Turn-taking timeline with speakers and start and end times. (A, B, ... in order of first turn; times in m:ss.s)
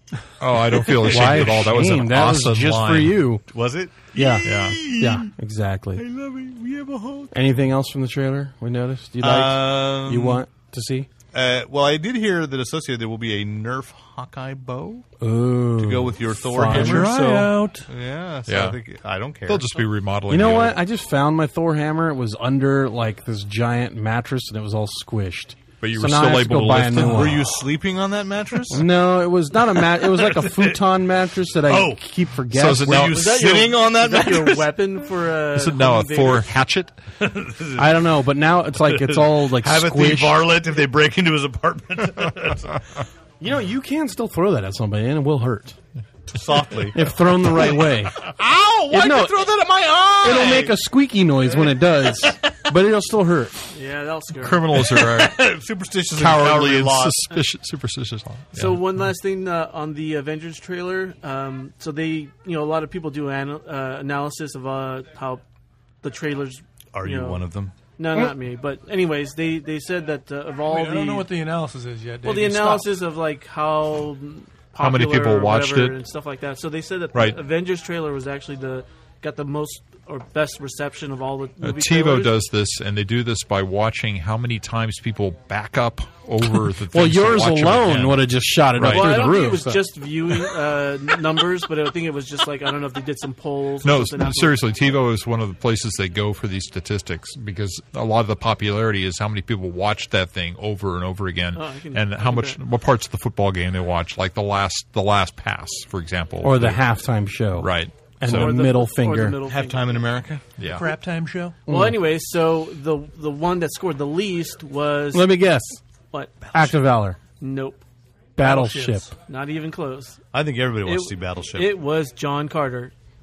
0:00.4-0:03.2 A
0:00.8-0:01.6 B
0:01.0-0:03.4 C
0:03.5-0:05.3 B
0:04.1-0:06.0 C
0:04.4-0:04.8 A
0:06.0-0:07.3 B
0:07.3-0:11.1 C
0:09.2-0:10.4 B
0:11.3-0:15.1 B
0:15.2-0:17.1 C
0:15.8-0:19.7 B
0:16.6-0:17.9 D
0:18.4-0:18.8 A
0:19.5-0:20.8 A
0:20.3-0:27.4 C
0:25.8-0:27.4 A
0:27.0-0:28.8 B
0:28.7-0:33.1 C
0:29.8-0:30.8 B
0:31.7-0:32.0 B
0:32.5-0:33.3 A
0:32.8-0:34.7 B
0:33.0-0:36.5 E
0:35.6-0:37.0 A
0:37.2-0:38.0 B
0:37.8-0:40.4 C
0:38.8-0:42.8 B
0:43.4-0:45.8 C
0:46.3-0:50.7 B
0:46.9-0:48.2 C
0:48.9-0:49.5 C
0:50.2-0:53.6 C
0:53.7-0:54.8 E
0:54.4-0:55.4 A
0:54.8-0:57.2 B
0:56.1-0:58.8 A
0:58.5-1:05.4 E
1:06.0-1:07.4 E
1:06.9-1:07.7 B
1:08.0-1:11.3 E
1:10.6-1:12.9 D
1:12.2-1:22.4 E
1:14.8-1:16.0 A
1:17.1-1:17.4 A
1:21.6-1:29.2 A
1:26.9-1:29.8 C
1:28.8-1:34.7 E
1:33.8-1:46.8 A
1:41.5-1:42.6 E
1:46.4-1:49.4 C
1:47.6-1:48.5 A
1:48.2-1:50.1 E
1:49.4-1:50.4 B
1:50.6-1:50.9 A
1:50.6-1:51.6 D
1:51.7-1:55.3 E
1:51.7-1:52.0 C
1:55.1-1:55.8 C
1:56.1-1:56.7 E
1:56.5-1:57.2 C
1:57.4-1:57.8 E
1:58.4-1:59.1 C
1:58.4-1:59.1 D
1:59.3-2:00.2 E
2:00.3-2:01.7 B
2:00.8-2:02.9 E